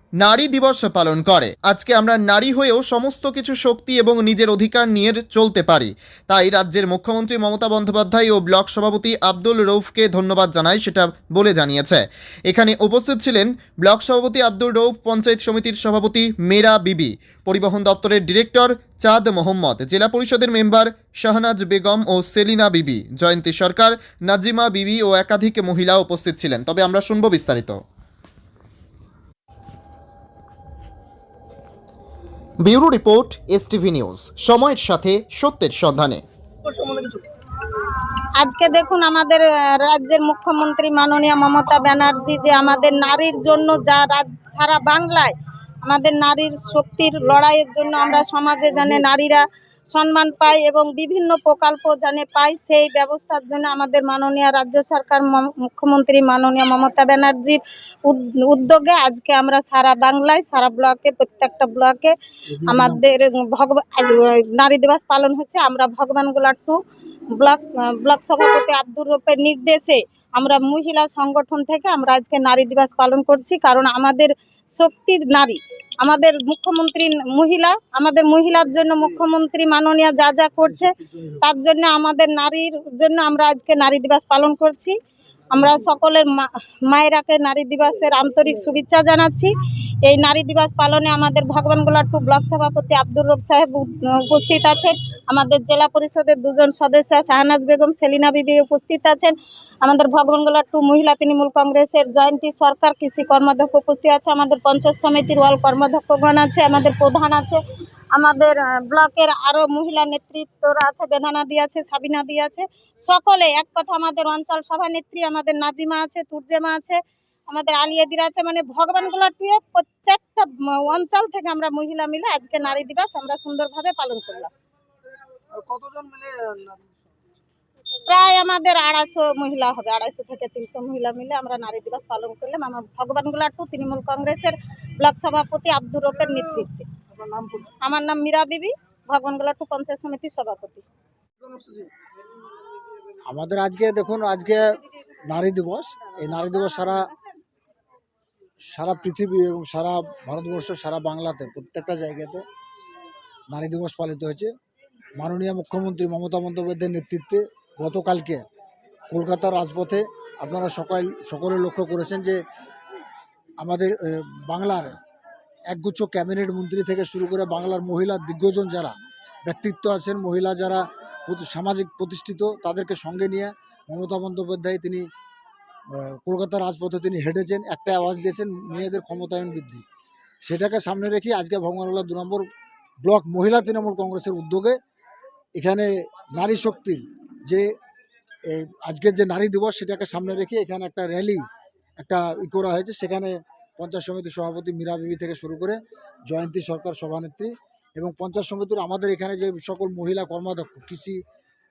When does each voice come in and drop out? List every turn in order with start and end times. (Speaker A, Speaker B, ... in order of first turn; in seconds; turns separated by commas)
Speaker A: 0.2-27.8, Speaker A: 32.6-36.2, Speaker B: 36.6-37.3, Speaker C: 38.4-66.8, Speaker C: 67.3-84.9, Speaker C: 85.5-89.5, Speaker C: 90.0-107.6, Speaker C: 108.1-124.5, Speaker B: 125.5-126.8, Speaker C: 128.0-136.9, Speaker B: 137.1-137.7, Speaker C: 137.8-140.8, Speaker B: 141.4-141.9, Speaker D: 143.3-144.7, Speaker D: 145.3-147.1, Speaker D: 148.7-152.4, Speaker D: 153.5-154.5, Speaker D: 155.2-158.4, Speaker D: 159.1-162.4, Speaker D: 163.6-164.9, Speaker D: 165.7-168.9, Speaker D: 169.4-175.1, Speaker D: 175.9-179.8, Speaker D: 180.4-182.4, Speaker D: 183.0-184.8, Speaker D: 185.6-187.7, Speaker D: 188.5-191.4, Speaker D: 192.0-201.2